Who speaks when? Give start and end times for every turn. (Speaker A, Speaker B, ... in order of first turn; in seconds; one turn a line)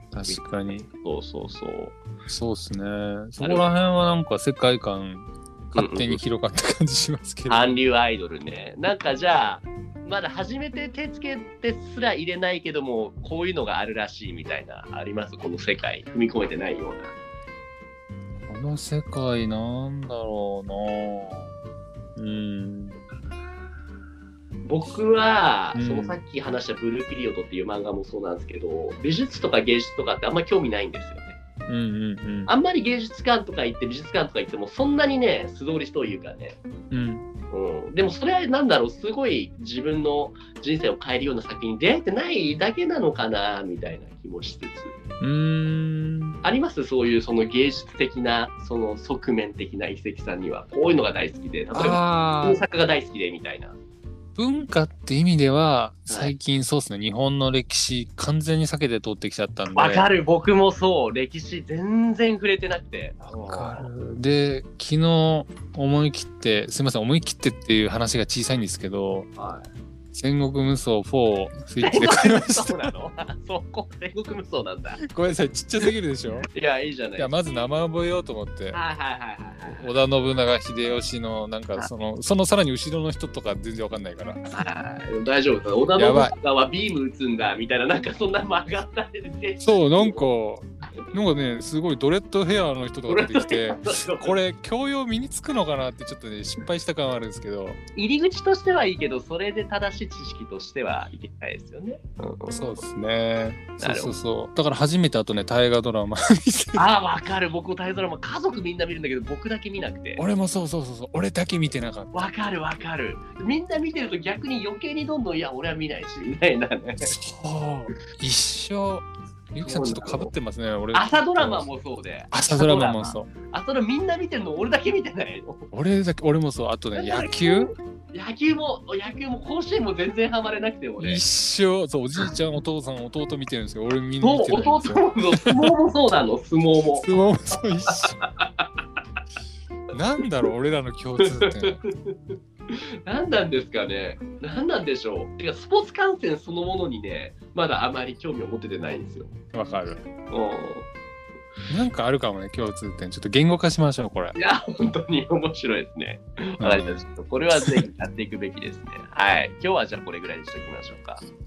Speaker A: 0.1-0.9
Speaker B: 0.3-2.0
Speaker A: 2.3-7.8
Speaker B: 3.4-3.7
Speaker B: 5.7-6.2
Speaker B: 7.5-17.1
Speaker A: 18.5-21.5
Speaker A: 22.1-23.0
Speaker B: 24.6-31.4
Speaker A: 25.7-26.2
Speaker A: 31.7-32.5
Speaker B: 32.5-36.6
Speaker A: 36.9-37.2
Speaker B: 37.5-44.9
Speaker A: 45.2-46.4
Speaker B: 46.4-53.8
Speaker A: 51.7-52.6
Speaker A: 54.4-60.1
Speaker B: 56.1-56.3
Speaker B: 59.7-63.9
Speaker A: 63.2-69.3
Speaker B: 69.4-69.7
Speaker A: 70.1-72.8
Speaker B: 71.8-75.0
Speaker A: 75.0-76.5
Speaker B: 76.5-77.3
Speaker A: 77.2-78.8
Speaker B: 78.7-79.9
Speaker A: 79.8-84.6
Speaker B: 84.5-90.2
Speaker A: 86.0-86.3
Speaker A: 89.6-97.8
Speaker B: 93.1-94.4
Speaker B: 97.9-102.7
Speaker A: 102.5-106.8
Speaker B: 103.8-104.1
Speaker B: 106.8-110.2
Speaker A: 110.2-112.2
Speaker B: 112.1-117.1
Speaker A: 117.0-121.7
Speaker B: 119.6-120.3
Speaker B: 120.9-125.7
Speaker A: 122.3-123.3
Speaker A: 125.7-127.7
Speaker B: 127.0-131.2
Speaker A: 131.0-135.7
Speaker B: 134.2-137.1
Speaker A: 137.0-138.2
Speaker B: 137.9-138.8
Speaker A: 139.9-141.8
Speaker B: 141.2-149.3
Speaker A: 149.5-150.0
Speaker B: 150.3-150.9
Speaker A: 151.7-154.4
Speaker B: 154.3-161.2
Speaker A: 156.6-157.0
Speaker A: 157.6-157.8